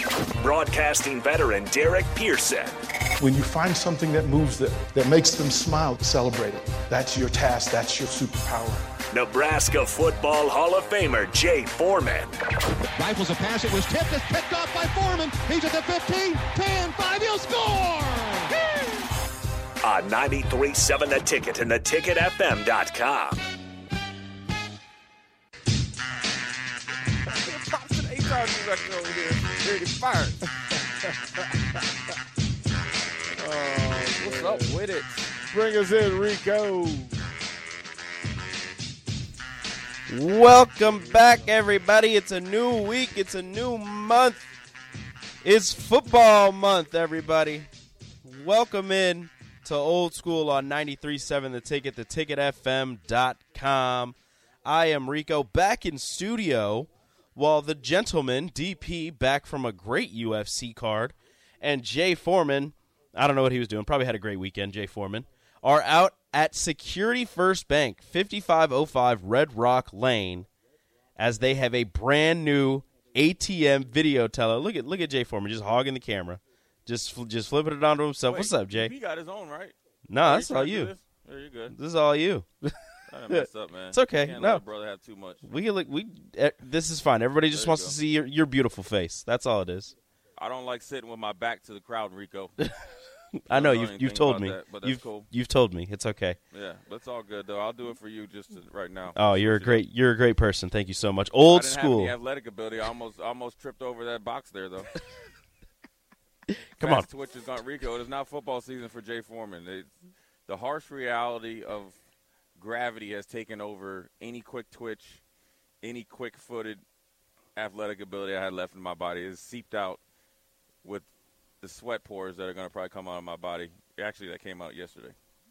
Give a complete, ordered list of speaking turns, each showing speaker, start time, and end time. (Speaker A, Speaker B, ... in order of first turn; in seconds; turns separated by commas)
Speaker A: 0.4-2.7, Speaker B: 3.2-8.8, Speaker A: 9.1-12.3, Speaker C: 12.9-18.5, Speaker A: 19.8-23.4, Speaker D: 27.3-30.4, Speaker E: 31.0-31.4, Speaker E: 33.3-34.8, Speaker D: 34.1-35.2, Speaker E: 35.4-37.2, Speaker F: 40.1-44.5, Speaker E: 40.9-41.5, Speaker F: 45.4-47.7, Speaker F: 48.2-70.5, Speaker F: 71.2-78.9, Speaker D: 78.2-81.8, Speaker F: 80.1-80.9, Speaker F: 81.7-84.6, Speaker D: 83.1-85.4, Speaker F: 85.4-89.9, Speaker D: 87.5-88.0, Speaker D: 90.4-92.5, Speaker F: 92.6-96.4, Speaker D: 93.5-95.3, Speaker D: 96.5-99.8, Speaker F: 99.1-102.1, Speaker D: 101.5-104.9, Speaker F: 106.5-107.1, Speaker D: 106.8-109.9, Speaker D: 110.5-112.0, Speaker D: 112.6-115.2, Speaker D: 115.8-116.8, Speaker D: 117.6-120.0, Speaker D: 121.6-125.2